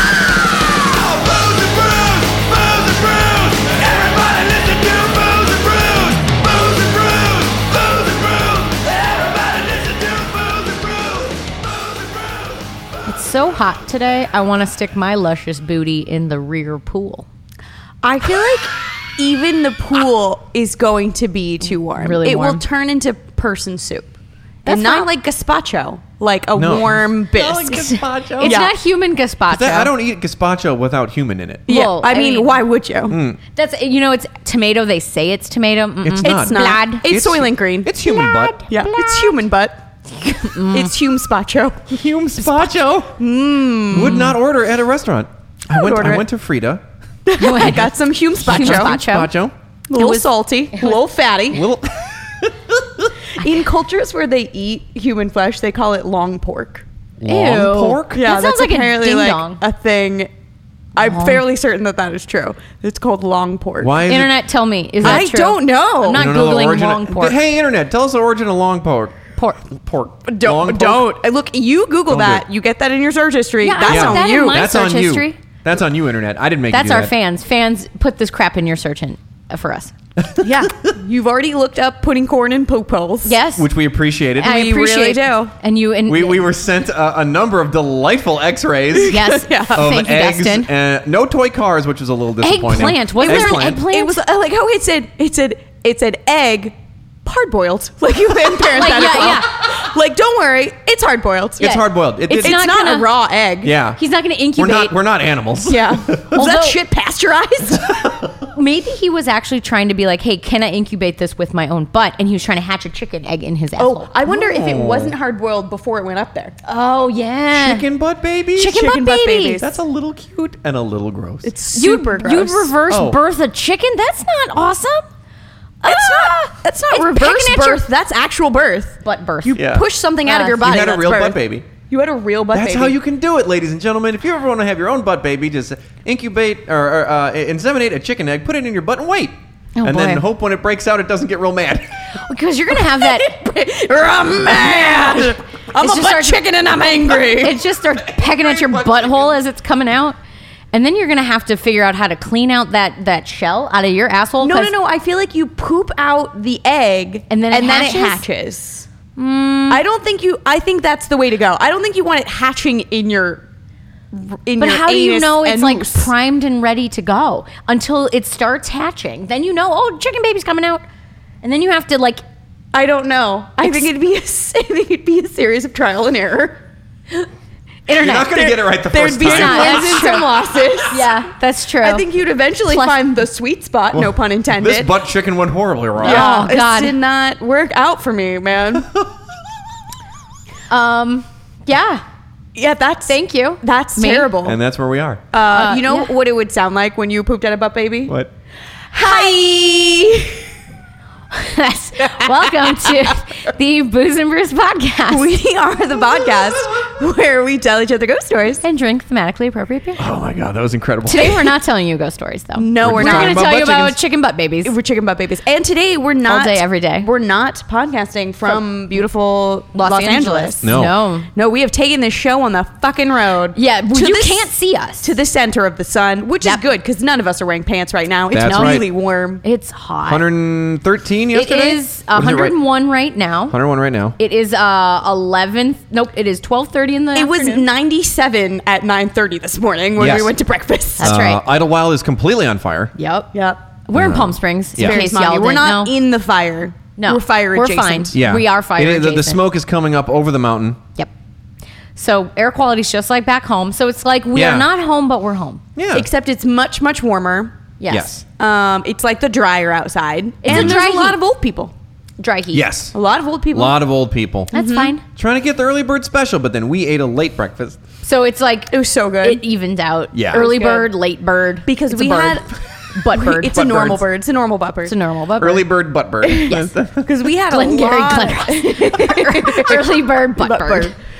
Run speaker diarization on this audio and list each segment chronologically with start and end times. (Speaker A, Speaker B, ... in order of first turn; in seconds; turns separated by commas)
Speaker A: 1.8-2.5, Speaker A: 3.6-6.1, Speaker A: 6.8-7.3, Speaker B: 13.1-17.3, Speaker C: 18.0-24.1, Speaker B: 21.9-22.6, Speaker B: 24.6-25.1, Speaker C: 24.6-28.7, Speaker A: 26.6-28.6, Speaker B: 27.7-29.9, Speaker A: 29.5-31.6, Speaker B: 31.7-32.6, Speaker C: 31.7-33.2, Speaker A: 33.1-33.4, Speaker B: 33.5-37.1, Speaker A: 36.0-38.5, Speaker C: 36.2-37.9, Speaker B: 38.0-39.4, Speaker C: 38.7-39.8, Speaker B: 40.2-40.9, Speaker C: 40.3-41.9, Speaker A: 41.9-43.2, Speaker C: 43.2-44.3, Speaker A: 43.9-46.8, Speaker B: 43.9-44.3, Speaker C: 45.7-46.2, Speaker C: 47.2-49.0, Speaker B: 47.4-49.3, Speaker A: 48.4-49.5, Speaker C: 49.9-51.6, Speaker B: 50.0-51.0, Speaker A: 51.5-53.1, Speaker C: 53.3-56.8, Speaker A: 57.2-58.2, Speaker B: 57.3-59.6, Speaker C: 58.1-60.3, Speaker C: 61.0-64.0, Speaker B: 61.0-61.4, Speaker A: 63.8-64.3, Speaker B: 64.1-67.4, Speaker C: 65.0-66.2, Speaker A: 66.1-71.1, Speaker C: 70.2-74.6, Speaker A: 72.1-72.4, Speaker B: 73.6-75.4, Speaker A: 73.8-77.1, Speaker B: 76.7-79.9, Speaker C: 80.4-83.4, Speaker B: 83.2-83.7, Speaker A: 83.5-84.6, Speaker B: 84.4-86.5, Speaker C: 84.4-85.5, Speaker A: 86.0-89.2, Speaker C: 88.9-89.8, Speaker B: 89.0-90.7, Speaker A: 89.7-93.8, Speaker B: 92.4-94.2, Speaker C: 93.2-103.7, Speaker B: 98.7-99.6, Speaker A: 101.6-102.6, Speaker B: 101.6-103.1, Speaker A: 103.6-104.0, Speaker B: 104.0-104.9, Speaker A: 104.5-106.4, Speaker C: 105.7-108.0, Speaker B: 106.3-106.8, Speaker A: 108.0-108.3, Speaker B: 108.5-114.1, Speaker C: 113.8-116.5, Speaker A: 114.2-115.1, Speaker B: 116.7-117.8, Speaker A: 117.5-118.8, Speaker B: 118.5-119.6, Speaker C: 118.6-119.8, Speaker A: 119.6-121.5, Speaker C: 121.4-122.7, Speaker B: 121.7-125.0, Speaker A: 122.9-123.2, Speaker B: 125.8-127.8, Speaker C: 125.8-132.9, Speaker B: 129.0-129.6, Speaker A: 129.6-129.8, Speaker B: 130.2-130.6, Speaker A: 130.6-131.7, Speaker A: 132.5-141.9, Speaker B: 139.8-140.2, Speaker B: 142.2-143.4, Speaker C: 142.7-147.6, Speaker B: 144.4-150.2, Speaker A: 148.0-149.3, Speaker B: 150.7-154.7, Speaker C: 154.4-158.9, Speaker B: 157.3-158.2, Speaker B: 159.2-159.8, Speaker C: 159.7-163.4, Speaker C: 164.1-166.1, Speaker B: 164.6-170.8, Speaker B: 171.4-172.2, Speaker C: 172.7-176.6, Speaker B: 177.9-178.4, Speaker A: 177.9-180.2, Speaker C: 178.3-181.2, Speaker B: 179.2-182.1, Speaker C: 181.8-184.9, Speaker B: 182.7-183.0, Speaker A: 183.9-186.4, Speaker C: 186.0-188.9, Speaker B: 186.0-186.9, Speaker B: 190.7-192.0, Speaker C: 192.5-194.6, Speaker B: 193.1-194.3, Speaker A: 194.4-195.2, Speaker C: 195.3-198.1, Speaker B: 195.4-196.1, Speaker C: 198.9-200.4, Speaker B: 201.3-205.3, Speaker C: 202.0-203.1, Speaker C: 205.1-208.6, Speaker B: 208.6-210.0, Speaker A: 210.0-211.5, Speaker B: 211.1-214.7, Speaker C: 212.6-213.6, Speaker A: 212.8-214.0, Speaker C: 214.6-220.8, Speaker B: 216.2-217.1, Speaker B: 219.7-221.3, Speaker A: 220.6-220.9, Speaker C: 221.3-224.5, Speaker B: 223.5-225.1, Speaker C: 225.0-229.4, Speaker A: 228.3-228.8, Speaker B: 228.3-228.9, Speaker B: 229.4-230.3, Speaker A: 230.0-232.5, Speaker B: 231.3-233.6, Speaker A: 233.5-234.2, Speaker B: 234.2-237.6, Speaker C: 237.1-241.1, Speaker A: 240.0-240.3, Speaker B: 241.0-241.4, Speaker A: 241.0-242.9, Speaker B: 242.9-243.3, Speaker C: 243.3-243.6, Speaker B: 243.9-245.9, Speaker A: 243.9-245.0, Speaker C: 244.8-248.1, Speaker B: 247.0-249.4, Speaker A: 248.1-250.8, Speaker B: 251.9-255.6, Speaker A: 254.3-254.7, Speaker A: 255.8-256.1, Speaker C: 255.9-257.6, Speaker B: 257.8-258.2, Speaker A: 257.9-258.2, Speaker C: 258.4-261.7, Speaker B: 260.4-261.2, Speaker A: 260.5-260.8, Speaker B: 262.2-262.6, Speaker A: 262.5-262.9, Speaker C: 262.9-263.8, Speaker A: 263.5-264.5, Speaker C: 264.5-264.9, Speaker B: 264.5-265.0, Speaker A: 265.1-267.8, Speaker B: 268.0-273.8, Speaker C: 268.7-269.4, Speaker A: 270.1-270.4, Speaker C: 270.3-270.9, Speaker C: 271.7-272.5, Speaker C: 273.1-274.9, Speaker A: 273.5-274.0, Speaker B: 274.8-275.7, Speaker A: 275.4-277.1, Speaker C: 276.2-280.9, Speaker B: 277.5-280.9